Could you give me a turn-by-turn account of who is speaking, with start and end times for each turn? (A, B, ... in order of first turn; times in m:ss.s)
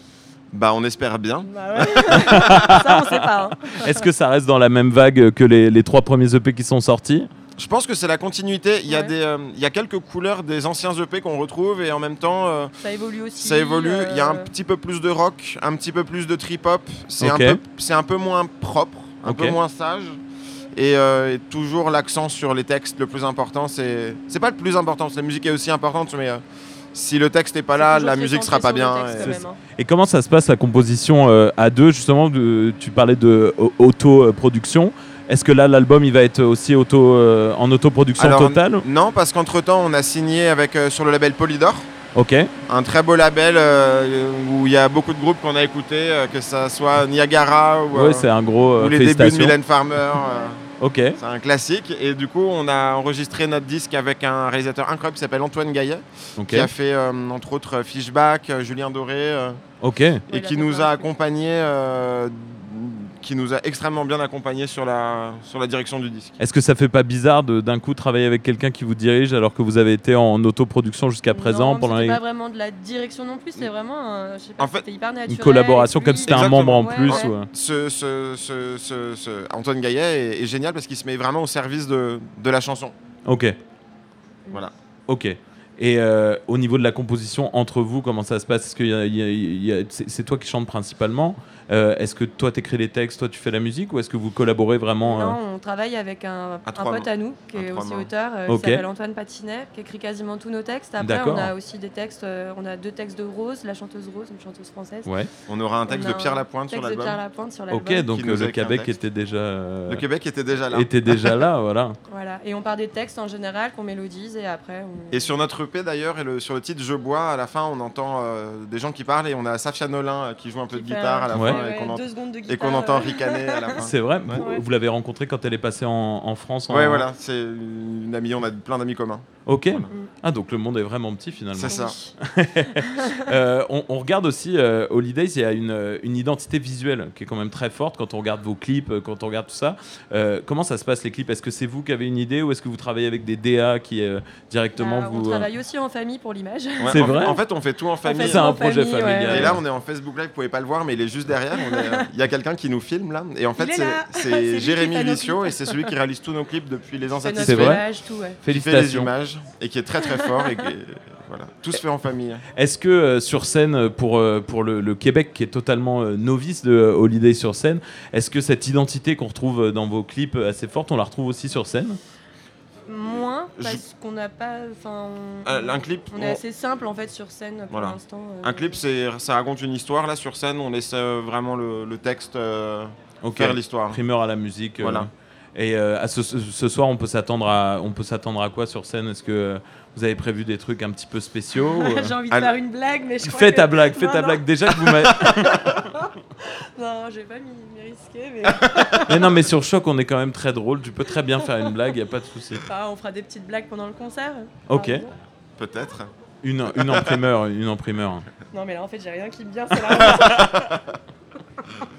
0:00.5-0:02.7 A
0:01.4-0:04.1 B
0:02.1-0:07.3 C
0:07.6-0:12.7 A
0:08.9-0:09.1 B
0:12.8-0:14.5 B
0:13.4-0:20.2 A
0:17.2-0:17.6 C
0:19.2-0:19.6 C
0:20.8-0:26.4 A
0:26.9-0:29.4 A
0:27.8-0:29.6 B
0:29.2-0:38.8 C
0:38.2-0:41.9 A
0:42.1-0:42.5 C
0:42.7-0:50.6 A
0:47.9-0:49.6 C
0:50.1-0:50.5 B
0:50.8-0:51.2 C
0:51.2-0:59.6 A
0:56.4-0:56.7 C
0:59.8-1:00.2 C
1:00.3-1:01.2 B
1:00.3-1:06.4 A
1:06.4-1:12.2 C
1:11.3-1:17.4 B
1:14.6-1:14.8 A
1:15.3-1:17.5 C
1:16.2-1:22.9 A
1:23.3-1:23.5 C
1:25.1-1:35.4 C
1:35.0-1:45.1 B
1:36.7-1:38.1 A
1:38.5-1:38.8 C
1:41.0-1:41.5 C
1:45.0-1:45.3 C
1:45.5-1:47.2 A
1:45.9-1:48.1 B
1:47.7-1:50.0 C
1:48.1-1:49.0 A
1:49.9-1:51.4 A
1:50.7-1:52.0 C
1:52.1-1:55.4 B
1:55.1-2:04.4 A
2:00.7-2:03.8 B
2:01.3-2:01.6 C
2:03.8-2:07.1 C
2:04.4-2:04.6 B
2:06.7-2:09.9 A
2:09.5-2:25.5 C
2:11.6-2:12.0 A
2:11.7-2:12.1 B
2:12.8-2:13.2 B
2:24.8-2:27.2 B
2:26.8-2:28.6 A
2:26.9-2:27.4 C
2:28.0-2:29.6 B
2:28.2-2:29.6 C
2:29.3-2:37.8 A
2:31.6-2:32.1 B
2:33.6-2:35.9 B
2:37.2-2:38.4 B
2:37.4-2:37.8 C
2:38.4-2:39.1 C
2:38.5-2:42.4 A
2:40.0-2:40.5 B
2:42.6-2:52.0 C
2:52.9-2:58.8 B
2:53.0-2:53.8 A
2:55.5-2:56.4 A
2:57.7-3:04.0 A
3:03.2-3:12.1 C
3:04.8-3:05.1 A
3:11.6-3:19.4 B
3:13.2-3:15.8 C
3:18.6-3:19.3 A
3:19.1-3:22.6 C
3:21.4-3:21.7 B
3:22.6-3:25.1 B
3:24.7-3:25.0 C
3:25.6-3:26.1 A
3:26.4-3:28.2 C
3:26.7-3:27.2 A
3:28.5-3:30.7 B
3:30.0-3:30.8 A